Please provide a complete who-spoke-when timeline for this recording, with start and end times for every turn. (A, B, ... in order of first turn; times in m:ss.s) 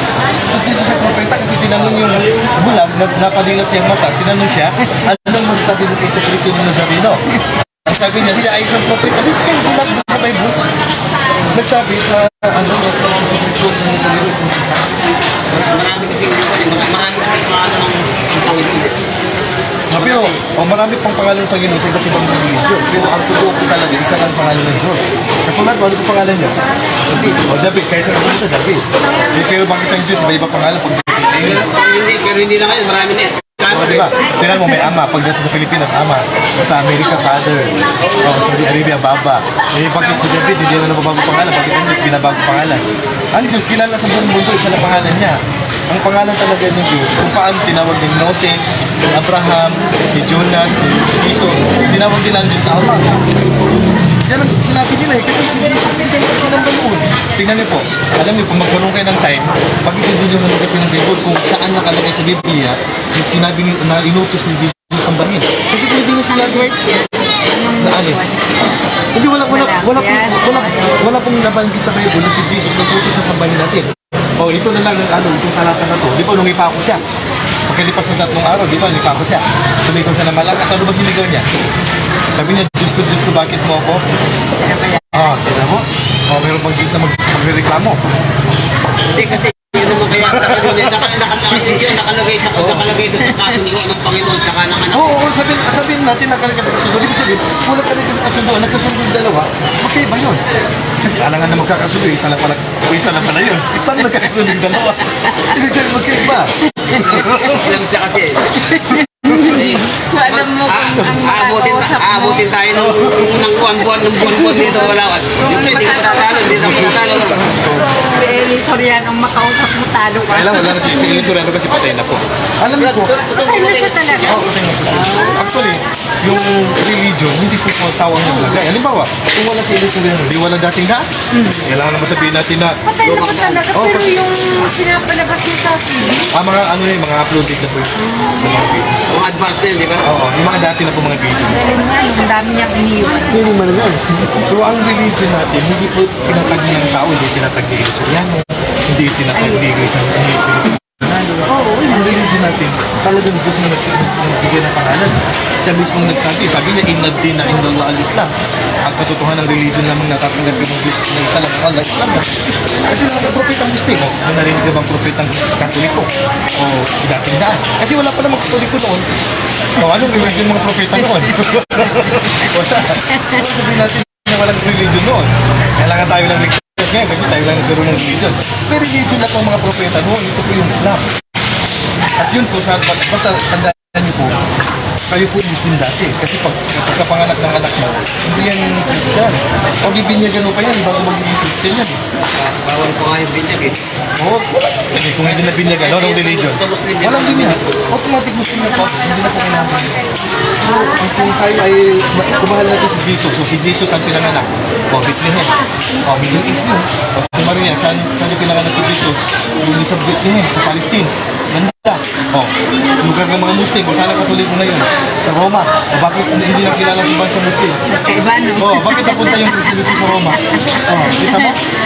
0:00.4-0:07.2 A
0:07.8-0:10.6 A
0:11.5-0:14.9 A
0:15.5-0:19.0 B
0:19.9-0:26.6 A
0:19.9-0:20.4 B
0:27.1-0:31.7 A
0:31.4-0:34.3 B
0:33.7-0:53.0 A
0:54.2-1:06.7 A
1:06.3-1:08.5 C
1:07.8-1:08.2 A
1:09.1-1:17.0 A
1:09.4-1:11.0 C
1:17.7-1:21.4 A
1:22.4-1:24.0 A
1:24.6-1:25.2 C
1:25.1-1:28.0 A
1:29.1-1:35.2 B
1:30.1-1:31.0 A
1:31.6-1:31.8 A
1:32.5-1:32.9 A
1:34.9-1:40.4 A
1:41.0-1:47.7 A
1:46.8-1:48.7 B
1:48.7-1:52.4 C
1:49.5-1:57.5 B
1:52.8-1:53.2 A
1:54.3-2:01.3 C
1:56.5-1:58.0 A
2:00.3-2:03.1 A
2:02.8-2:04.5 B
2:03.3-2:05.4 C
2:04.2-2:11.1 A
2:11.3-2:11.6 C
2:11.6-2:12.8 A
2:12.8-2:16.3 C
2:13.0-2:13.7 B
2:13.7-2:14.1 A
2:16.3-2:19.0 A
2:18.0-2:18.5 C
2:19.1-2:20.1 B
2:20.0-2:21.6 A
2:21.4-2:23.6 C
2:23.5-2:38.3 A
2:29.4-2:29.7 C
2:31.5-2:32.3 C
2:38.8-2:42.3 A
2:42.8-2:49.1 A
2:49.7-3:01.0 A
3:02.2-3:04.4 A
3:05.1-3:12.0 A
3:12.3-3:13.8 B
3:14.2-3:20.0 A
3:15.2-3:17.9 B
3:20.6-3:37.8 A
3:37.9-3:39.4 C
3:38.6-3:41.6 A
3:40.6-3:41.5 C